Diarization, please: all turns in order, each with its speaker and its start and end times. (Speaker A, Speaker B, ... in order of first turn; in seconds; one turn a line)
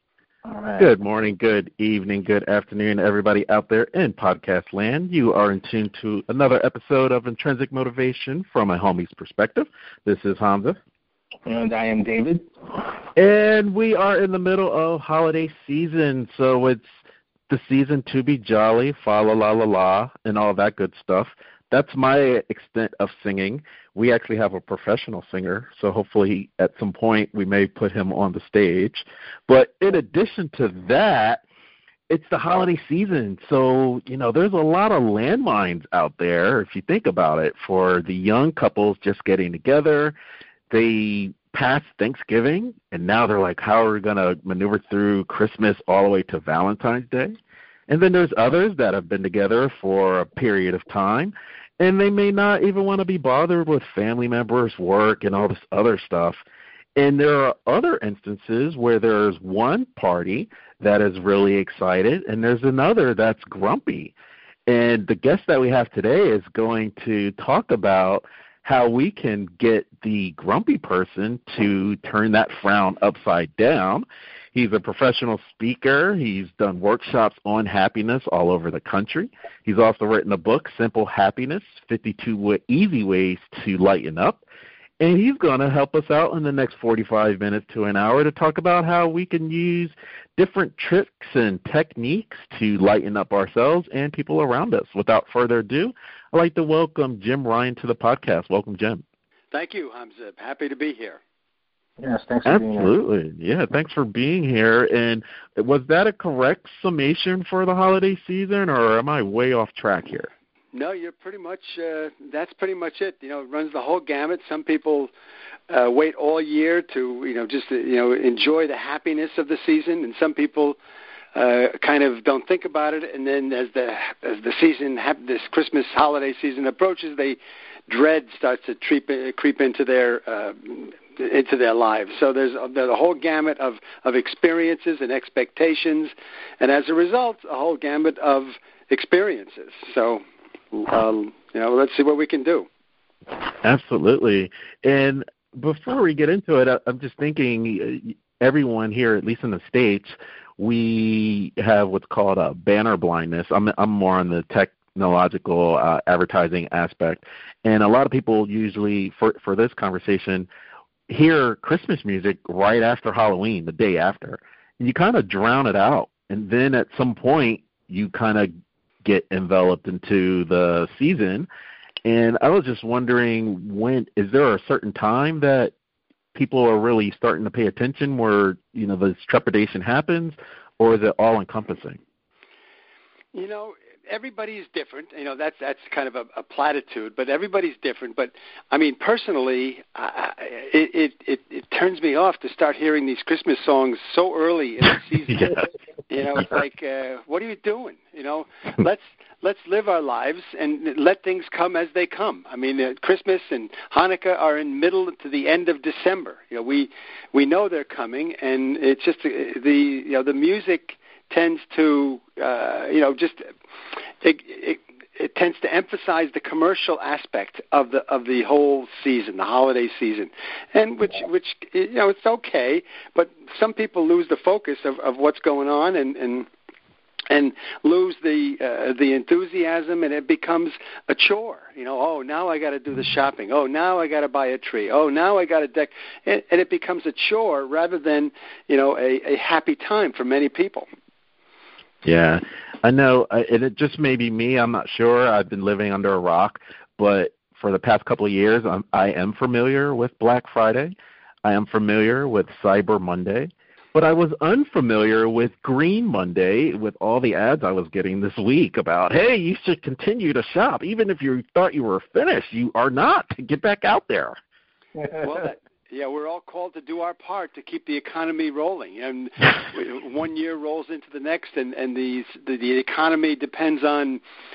Speaker A: 0.4-0.9
Speaker B: 0.8-10.8
Speaker A: 11.5-12.9
Speaker B: 13.2-16.9
Speaker B: 17.5-31.4
Speaker B: 32.1-40.1
Speaker B: 40.7-47.3
Speaker B: 47.9-56.4
Speaker B: 57.0-64.1
Speaker B: 64.7-84.4
Speaker B: 85.0-99.0
Speaker C: 99.5-101.2
Speaker A: 102.0-102.9
Speaker B: 102.5-110.3
Speaker C: 110.7-115.1
Speaker C: 115.7-120.8
Speaker C: 121.3-142.7
Speaker B: 143.6-160.5
Speaker B: 161.1-168.5
Speaker B: 169.0-171.5
Speaker B: 172.0-175.7
Speaker B: 176.3-182.0
Speaker C: 183.3-213.5
Speaker B: 195.3-195.6
Speaker C: 214.2-226.5
Speaker C: 227.3-240.9
Speaker B: 242.0-264.4
Speaker A: 265.0-265.3
Speaker C: 265.2-274.2